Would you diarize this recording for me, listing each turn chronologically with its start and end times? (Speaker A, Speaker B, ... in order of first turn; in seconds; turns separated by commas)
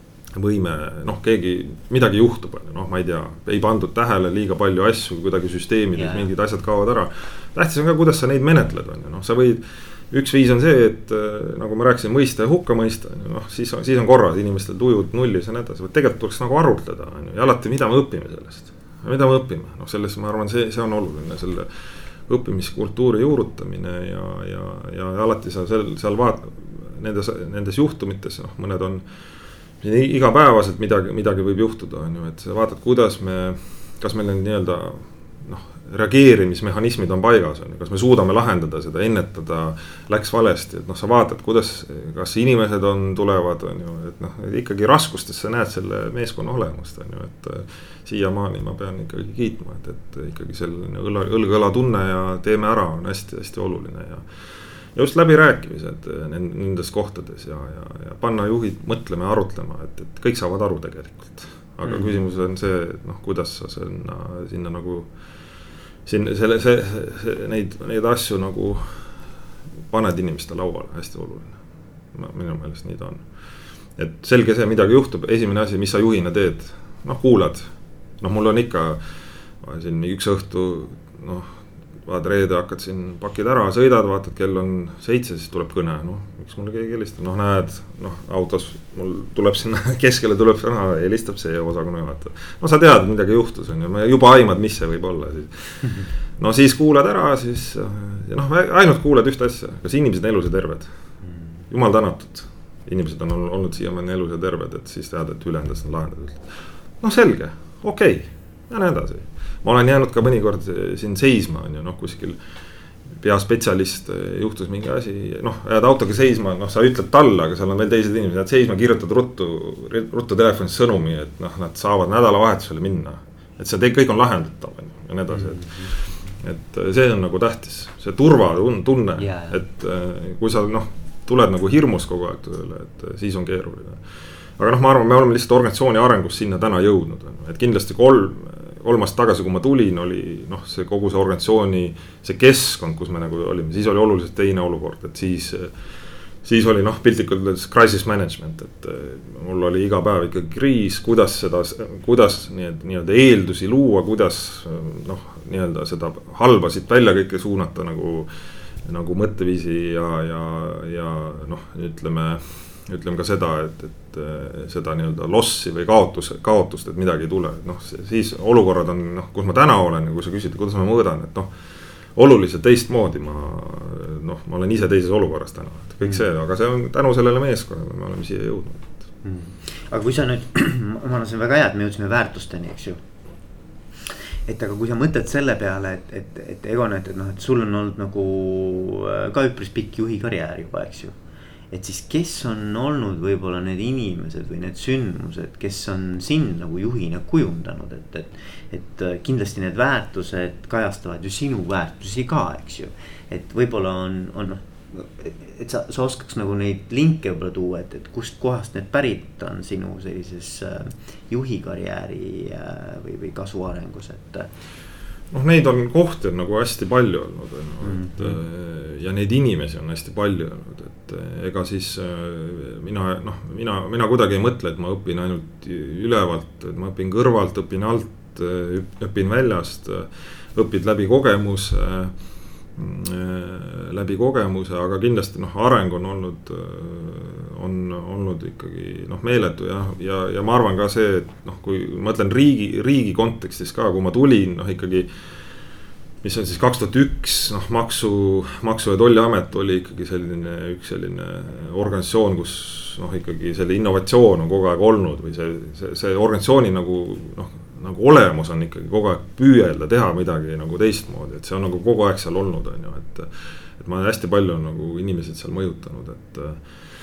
Speaker A: 0.3-21.7, Speaker B: 5.9-6.3, Speaker A: 22.3-29.0, Speaker A: 29.8-54.3, Speaker A: 54.9-65.1, Speaker B: 61.9-62.1, Speaker A: 66.1-69.1, Speaker A: 69.9-71.6, Speaker A: 72.1-73.2, Speaker A: 74.0-77.7, Speaker A: 78.2-79.0, Speaker A: 79.6-81.5, Speaker A: 82.1-100.9, Speaker A: 101.7-112.4, Speaker A: 113.2-134.0, Speaker B: 125.3-125.9, Speaker B: 129.2-129.6, Speaker A: 134.6-145.7, Speaker A: 146.4-158.3, Speaker A: 158.8-171.5, Speaker A: 172.2-178.9, Speaker B: 179.2-183.0, Speaker B: 184.4-191.1, Speaker B: 191.7-214.5, Speaker A: 215.3-232.1, Speaker B: 217.8-218.4, Speaker A: 232.8-245.1, Speaker A: 246.2-266.6